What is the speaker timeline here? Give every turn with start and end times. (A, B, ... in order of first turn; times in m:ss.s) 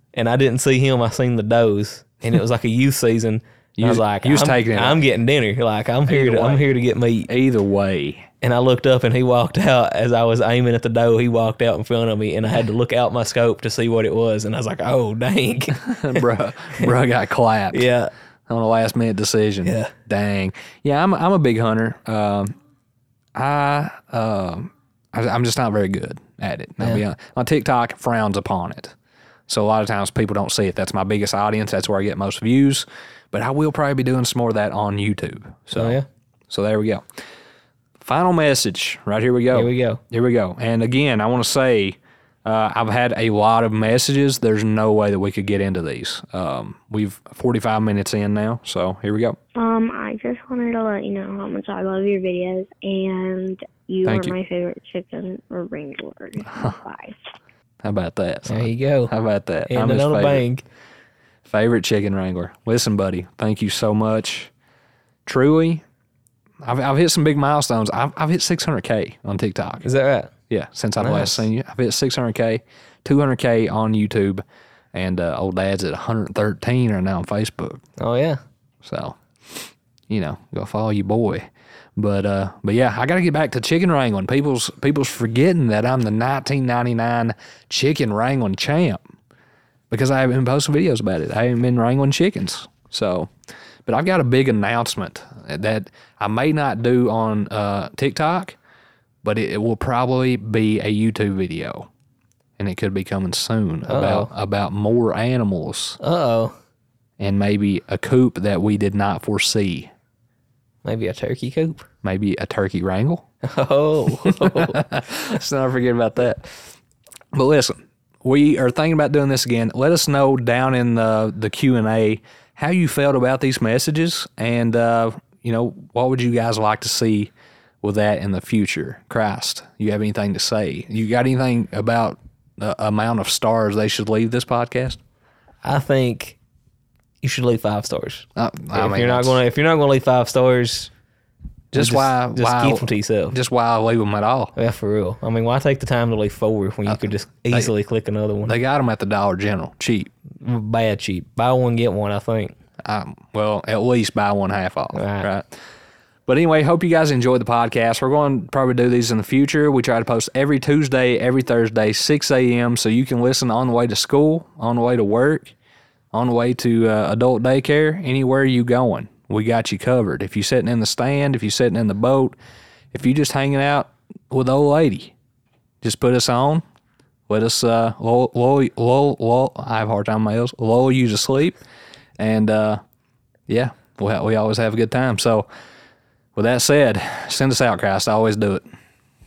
0:00.1-0:07.3 A
0:03.8-0:05.0 B
0:06.1-0:06.7 B
0:07.3-0:08.3 B
0:08.4-0:16.2 A
0:15.8-0:17.9 B
0:17.7-0:18.1 A
0:18.5-0:22.5 B
0:19.6-0:19.9 A
0:23.4-0:28.9 B
0:29.5-0:36.0 B
0:35.7-0:36.1 A
0:36.5-0:37.0 B
0:38.0-0:49.4 B
0:39.5-0:40.0 A
0:49.6-0:57.2 C
0:54.0-0:54.4 B
0:56.5-0:56.8 B
0:57.8-1:00.4 B
0:58.5-0:59.1 A
0:59.7-1:00.6 A
1:01.5-1:04.5 B
1:05.3-1:05.8 B
1:06.6-1:09.9 B
1:09.8-1:10.3 A
1:10.5-1:14.4 B
1:11.0-1:11.5 A
1:14.9-1:17.8 B
1:18.0-1:18.4 A
1:18.8-1:29.0 B
1:29.9-1:33.3 B
1:33.9-1:38.6 B
1:39.2-1:41.9 B
1:42.6-1:46.0 B
1:43.9-1:44.3 A
1:46.0-1:46.6 A
1:47.2-1:49.9 B
1:50.8-1:51.9 A
1:52.0-1:53.3 B
1:53.4-1:54.8 A
1:54.3-1:56.6 B
1:57.3-2:07.3 B
2:07.8-2:15.0 B
2:15.6-2:16.4 A
2:17.2-2:20.9 A
2:18.4-2:19.4 B
2:21.7-2:24.5 B
2:21.7-2:23.4 A
2:24.6-2:28.6 A
2:26.9-2:27.7 B
2:28.4-2:30.1 B
2:30.4-2:32.6 A
2:32.8-2:35.5 B
2:34.9-2:35.3 A
2:36.3-2:45.5 B
2:46.1-2:52.4 B
2:52.9-2:55.1 B
2:55.8-2:56.6 B
2:57.3-3:01.6 B
3:02.2-3:02.8 B
3:03.5-3:05.5 B
3:06.4-3:08.6 B